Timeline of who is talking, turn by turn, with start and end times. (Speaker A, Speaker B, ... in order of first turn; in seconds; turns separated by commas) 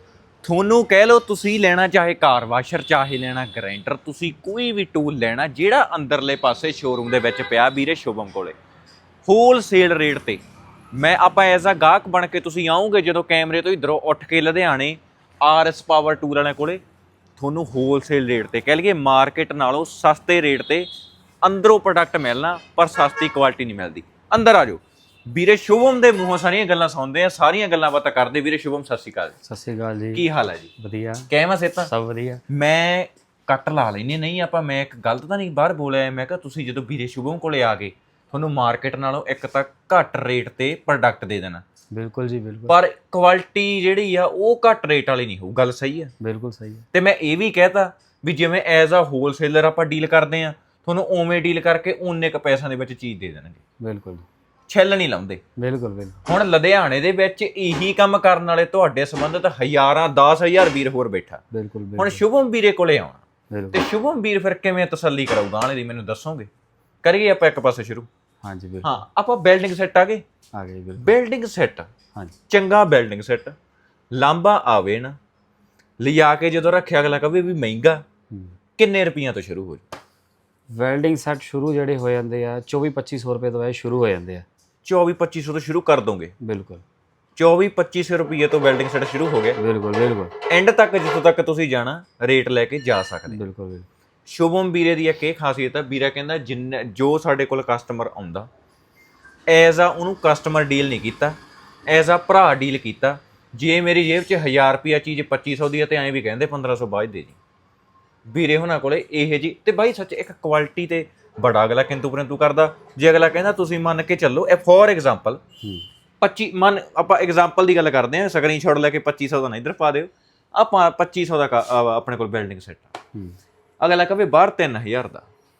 Speaker A: 0.4-8.6, Speaker A: 9.2-10.4, Speaker A: 10.9-16.8, Speaker A: 17.4-20.9, Speaker A: 21.4-29.3, Speaker B: 29.4-30.2, Speaker A: 30.1-30.7, Speaker B: 30.8-31.3, Speaker A: 31.3-31.9, Speaker B: 31.9-32.4, Speaker A: 32.5-41.6, Speaker B: 41.9-42.8, Speaker A: 42.7-46.1, Speaker B: 46.2-46.8, Speaker A: 46.9-53.6, Speaker B: 53.8-54.2, Speaker A: 54.7-55.4, Speaker B: 55.6-56.2, Speaker A: 56.2-61.4, Speaker B: 61.5-62.2, Speaker A: 62.0-66.5, Speaker B: 63.5-63.8, Speaker A: 67.0-68.1, Speaker B: 68.4-68.9, Speaker A: 68.8-70.2, Speaker B: 70.5-71.1, Speaker A: 71.0-71.9, Speaker A: 72.5-73.5, Speaker A: 74.1-75.2, Speaker A: 76.0-78.0, Speaker A: 78.8-79.8, Speaker B: 80.7-84.4, Speaker A: 84.8-86.3, Speaker B: 86.4-86.8, Speaker A: 87.3-89.6, Speaker B: 89.6-90.3, Speaker A: 90.5-93.4, Speaker B: 93.3-93.9, Speaker A: 94.3-98.5, Speaker A: 99.5-101.3, Speaker A: 101.9-107.4, Speaker A: 108.3-115.4, Speaker A: 116.2-123.0, Speaker A: 123.8-125.2